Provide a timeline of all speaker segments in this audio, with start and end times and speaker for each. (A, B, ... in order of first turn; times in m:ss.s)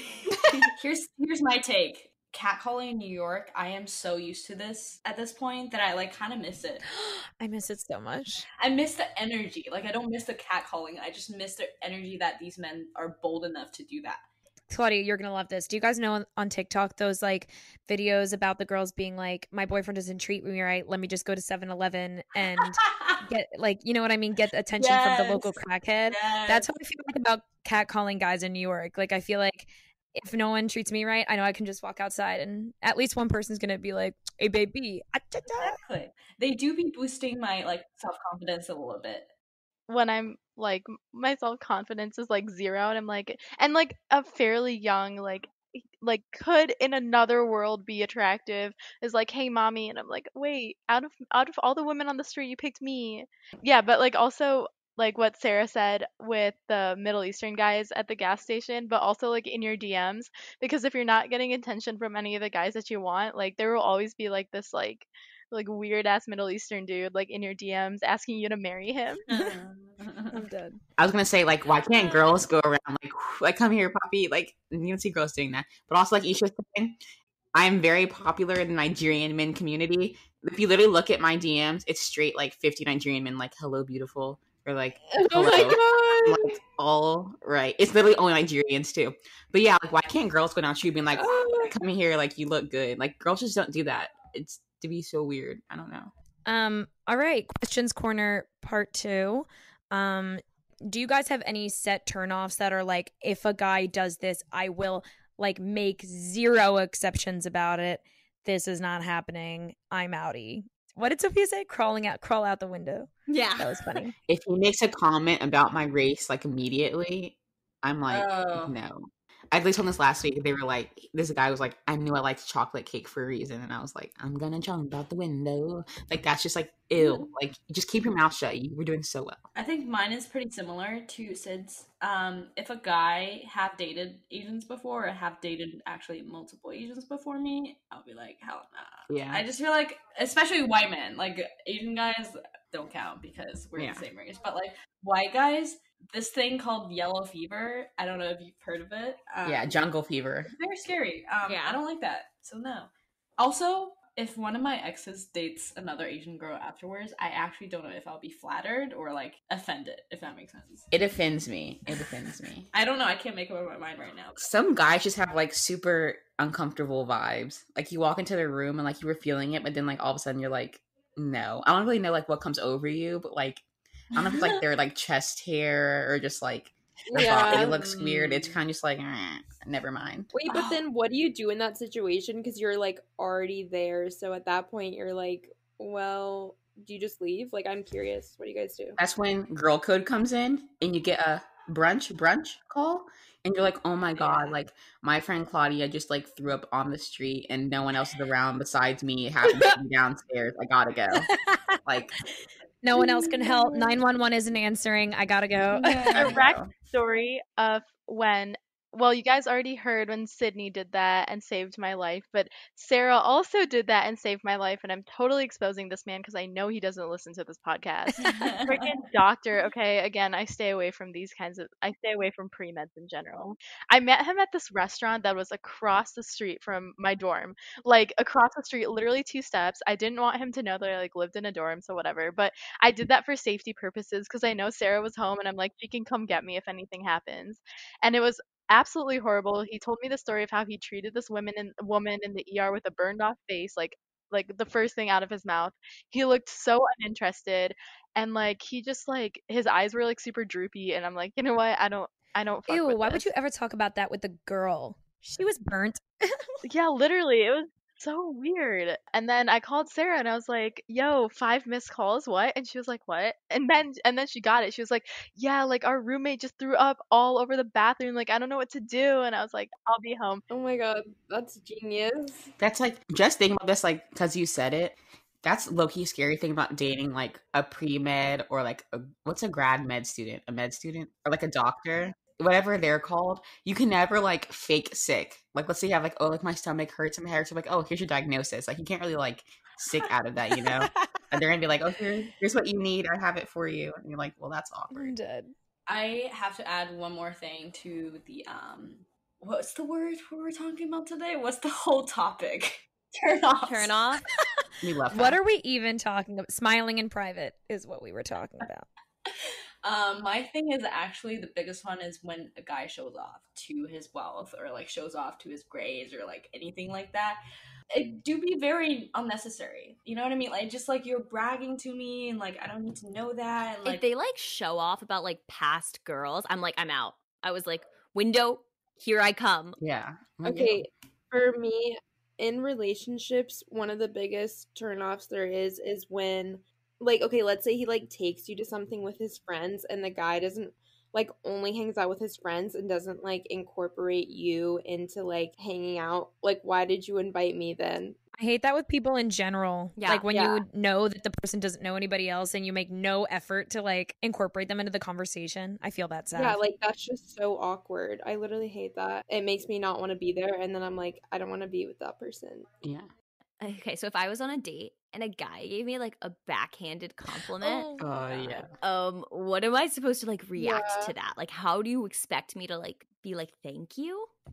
0:00.5-0:06.8 A
0:06.9-0:08.4 B
0:08.6-0:14.2 A
0:14.7-0:35.8 B
0:22.6-0:23.2 A
0:24.8-0:26.7 A
0:35.6-0:39.3 A
0:39.9-1:09.2 C
1:09.3-1:10.4 A
1:10.3-1:10.8 B
1:11.0-1:17.0 D
1:11.9-1:12.4 A
1:17.5-1:36.1 D
1:25.1-1:26.6 E
1:31.2-1:31.7 E
1:36.5-1:54.1 B
1:53.3-1:54.0 F
1:54.3-2:09.5 D
1:58.1-1:58.8 A
2:07.0-2:07.3 A
2:09.6-2:29.8 A
2:19.1-2:19.4 D
2:23.8-2:24.1 D
2:29.4-2:30.5 D
2:30.5-2:40.9 A
2:31.4-2:31.8 F
2:40.9-2:42.7 D
2:42.7-2:44.5 A
2:44.4-3:00.3 D
2:54.2-2:54.6 A
2:57.1-2:57.8 E
2:57.1-2:58.6 A
3:00.3-3:09.0 E
3:00.5-3:00.8 A
3:09.0-3:21.3 D
3:14.2-3:14.5 A
3:22.8-3:26.4 B
3:23.0-3:24.0 A
3:25.7-3:26.4 A
3:26.2-4:13.3 C
3:26.2-3:26.7 D
3:38.2-3:38.9 A
4:12.7-4:16.5 B
4:16.6-4:30.4 C
4:30.5-4:32.5 E
4:32.6-4:55.2 D
4:54.9-4:55.5 B
4:55.9-5:04.0 A
5:03.6-5:04.2 F
5:04.8-5:05.4 D
5:05.1-5:08.9 B
5:09.8-5:17.4 A
5:17.9-5:24.0 A
5:23.8-5:29.8 F
5:29.8-5:30.8 D
5:30.4-5:48.2 E
5:48.4-5:56.6 B
5:50.0-5:50.3 F
5:50.3-5:50.6 E
5:56.4-6:02.7 E
6:02.8-6:03.1 D
6:03.6-6:14.3 F
6:07.6-6:08.1 B
6:08.0-6:08.7 D
6:10.6-6:11.1 E